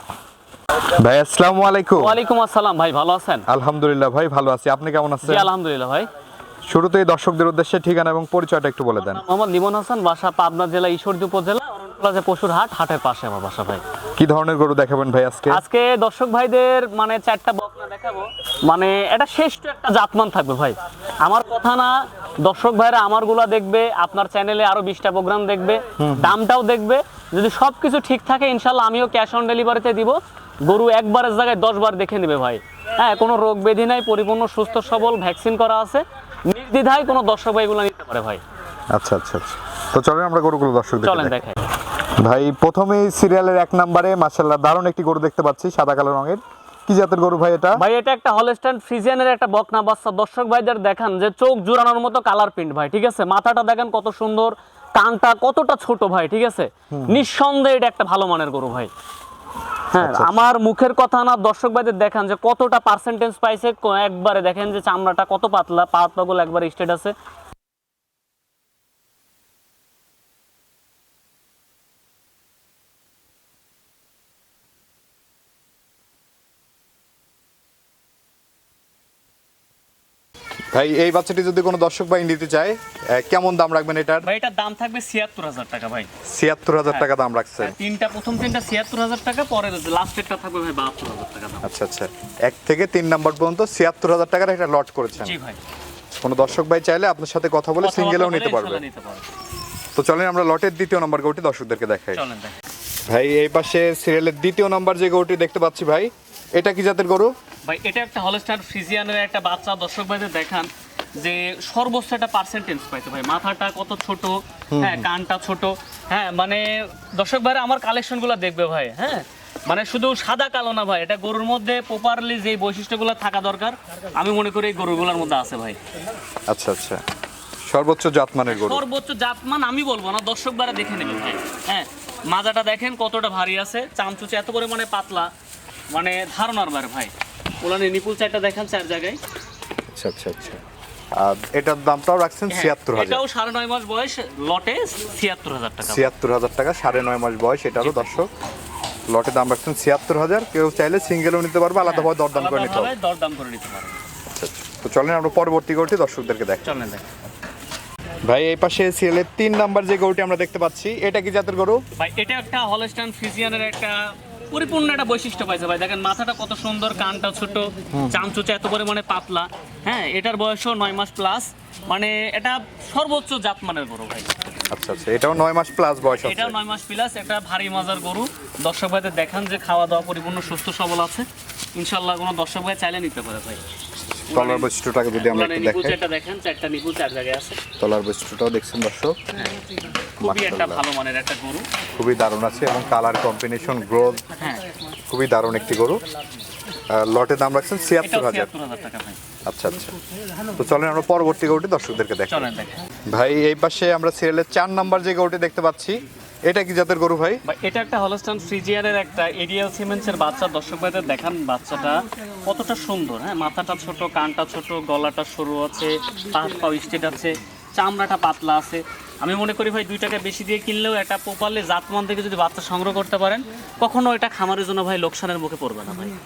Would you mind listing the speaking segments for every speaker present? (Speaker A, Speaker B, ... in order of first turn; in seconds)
Speaker A: 0.9-2.2, 3.5-5.5, 6.7-9.2, 14.2-15.6, 26.0-26.4, 38.9-41.4, 42.2-47.8, 56.9-57.2, 60.0-60.3, 80.7-84.3, 86.3-87.8, 91.6-95.4, 96.2-98.8, 100.0-102.2, 103.1-107.3, 114.7-115.1, 126.5-127.0, 127.7-128.8, 139.9-140.6, 141.2-143.2, 145.9-148.3, 149.1-152.9, 154.3-156.7, 158.2-161.8, 167.9-168.2, 174.7-176.6, 184.3-186.0, 187.8-189.2, 190.2-190.8, 191.9-194.2, 195.1-196.0, 196.9-198.5, 199.5-199.9, 200.6-202.5, 203.1-207.4
Speaker B: 2.0-3.5, 5.2-6.1, 9.0-13.8, 15.5-38.4, 41.0-41.6, 47.8-58.9, 59.9-67.1, 84.2-86.1, 87.6-91.7, 95.2-95.6, 97.8-99.2, 102.1-102.5, 107.7-125.8, 128.5-135.3, 135.9-139.2, 142.5-146.1, 147.8-148.2, 151.8-154.0, 156.6-157.1, 162.0-174.3, 176.2-183.6, 184.3-187.6, 189.3-189.6, 190.2-191.7, 194.4-194.6, 198.0-199.2, 202.3-202.8, 207.4-226.1